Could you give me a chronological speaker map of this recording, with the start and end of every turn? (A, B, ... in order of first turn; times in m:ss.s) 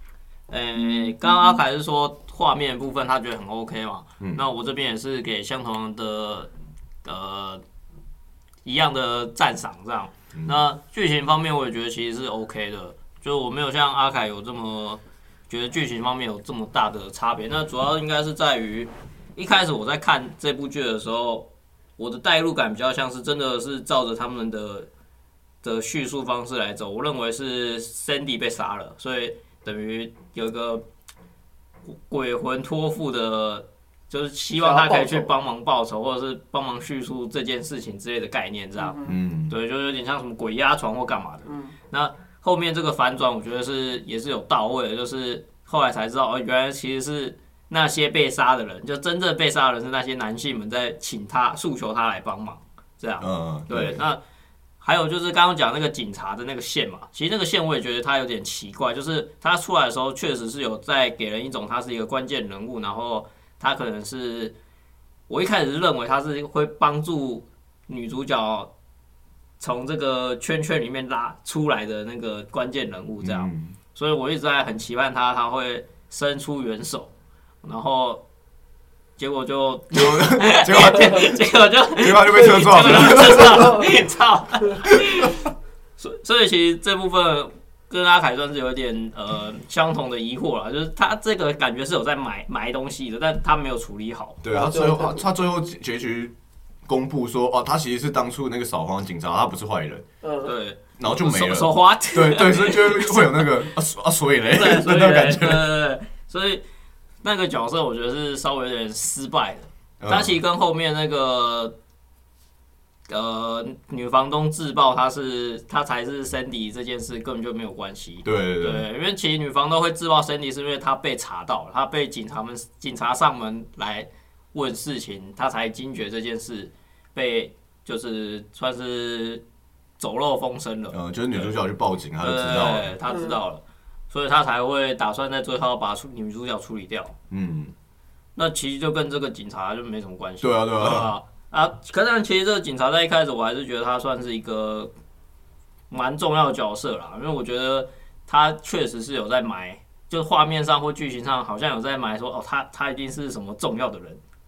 0:00.5-0:06.5 A
0:07.0-0:07.6 A
0:08.6-0:21.5 A
0:10.3-0:10.6 B
0:22.0-0:24.9 A
0:25.6-0:30.8 A
0:31.9-0:54.2 A
0:34.6-0:35.3 C
0:38.8-0:39.1 C
0:39.0-0:39.6 B
0:41.4-0:41.7 C
0:53.2-0:54.0 B
0:54.8-1:04.5 A
1:05.3-1:08.7 A
1:09.6-1:17.1 A
1:13.2-1:13.8 B
1:17.6-1:18.2 A
1:19.2-1:34.4 A
1:19.9-1:21.4 B
1:21.9-1:23.8 B
1:22.8-1:23.9 C
1:34.4-1:36.3 B
1:34.5-1:35.2 C
1:36.8-1:40.0 B
1:40.2-1:40.5 C
1:40.4-1:43.6 A
1:41.0-1:45.7 B
1:44.5-1:46.6 A
1:47.2-1:51.7 A
1:50.0-1:50.3 B
1:53.1-2:09.4 A
1:58.2-1:58.9 B
2:10.0-2:11.5 A
2:10.9-2:12.9 B
2:12.2-2:17.1 A
2:13.1-2:13.4 C
2:17.3-2:17.7 B
2:18.3-2:24.9 A
2:20.4-2:21.1 B
2:25.9-2:34.2 A